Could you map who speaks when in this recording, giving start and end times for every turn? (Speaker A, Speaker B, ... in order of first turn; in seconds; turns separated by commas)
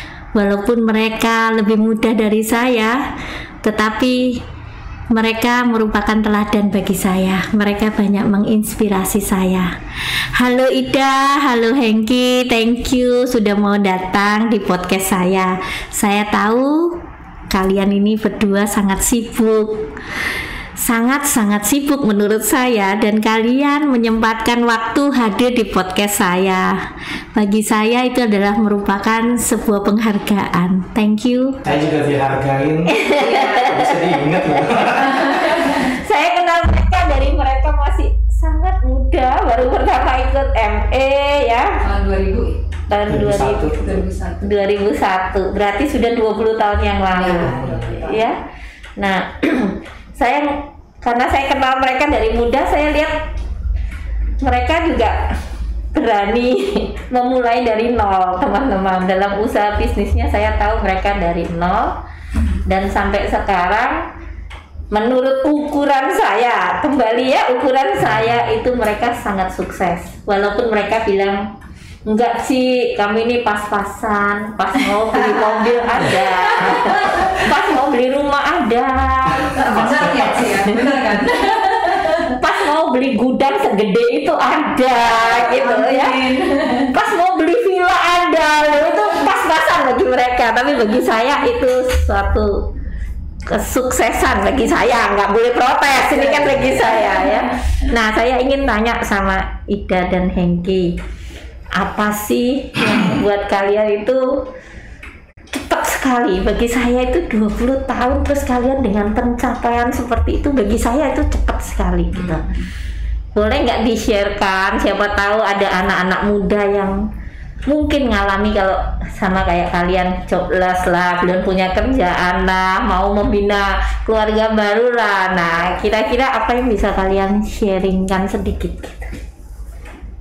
Speaker A: 0.3-3.0, Speaker A: 3.6-4.4, Speaker A: 5.1-9.8, Speaker A: 10.3-17.0, Speaker A: 17.5-19.9, Speaker A: 20.8-31.6, Speaker B: 31.6-32.0, Speaker C: 31.6-33.0, Speaker A: 32.9-41.8, Speaker B: 33.1-33.9, Speaker C: 33.6-35.6, Speaker B: 35.2-35.9, Speaker B: 41.8-42.6, Speaker A: 42.9-43.8, Speaker C: 43.1-44.0, Speaker B: 43.7-44.6, Speaker A: 44.4-48.4, Speaker B: 47.1-48.3, Speaker C: 47.4-48.0, Speaker A: 49.0-53.2, Speaker A: 54.4-55.2, Speaker A: 55.9-62.0, Speaker A: 62.6-64.0, Speaker A: 64.9-71.5, Speaker C: 68.0-68.5, Speaker A: 72.1-79.7, Speaker B: 74.9-77.5, Speaker C: 79.3-80.6, Speaker B: 79.3-82.4, Speaker A: 82.3-86.3, Speaker B: 85.0-86.9, Speaker A: 86.9-92.6, Speaker A: 93.5-101.0, Speaker B: 96.1-97.8, Speaker A: 101.7-104.3, Speaker A: 105.5-112.5, Speaker B: 112.1-112.7, Speaker A: 113.3-117.0, Speaker A: 117.7-129.2